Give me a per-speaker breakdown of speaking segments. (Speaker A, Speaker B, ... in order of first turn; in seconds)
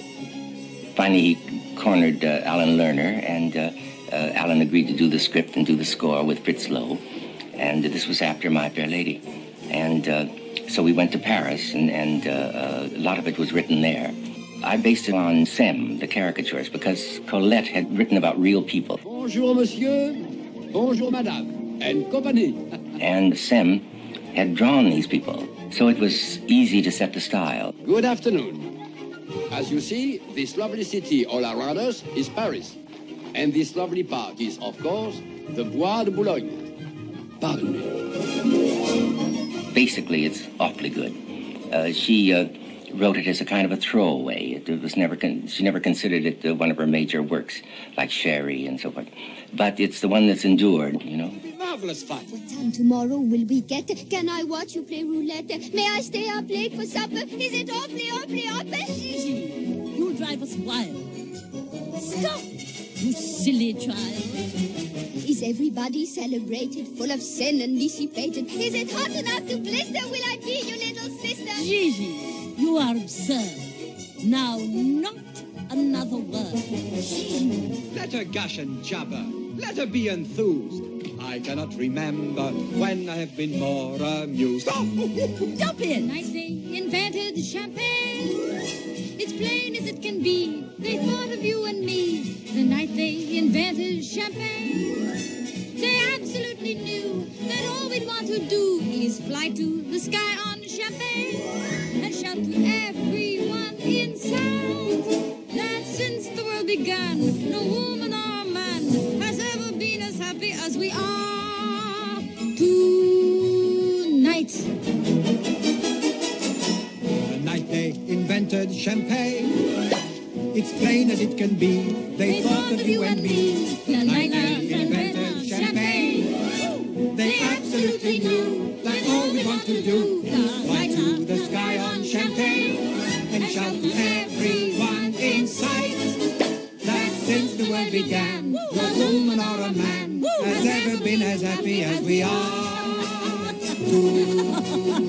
Speaker A: 0.9-7.0, 7.6-19.0, 23.0-27.7, 39.7-41.2, 41.7-51.4
Speaker B: 19.0-22.8, 27.8-28.7, 29.5-32.8, 33.3-36.7, 37.4-38.0
Speaker C: 51.4-52.3, 77.9-84.9, 117.2-119.6, 120.5-126.2, 127.1-136.2, 136.8-144.6
Speaker D: 52.3-59.3, 62.0-62.4, 65.2-71.7
Speaker E: 59.1-61.1, 63.0-64.4, 71.5-73.7, 74.2-76.7, 85.3-86.1, 124.1-125.6, 130.3-131.3
Speaker F: 85.9-88.5, 89.2-95.1, 95.8-114.7, 122.2-126.5, 127.1-136.0, 136.9-143.5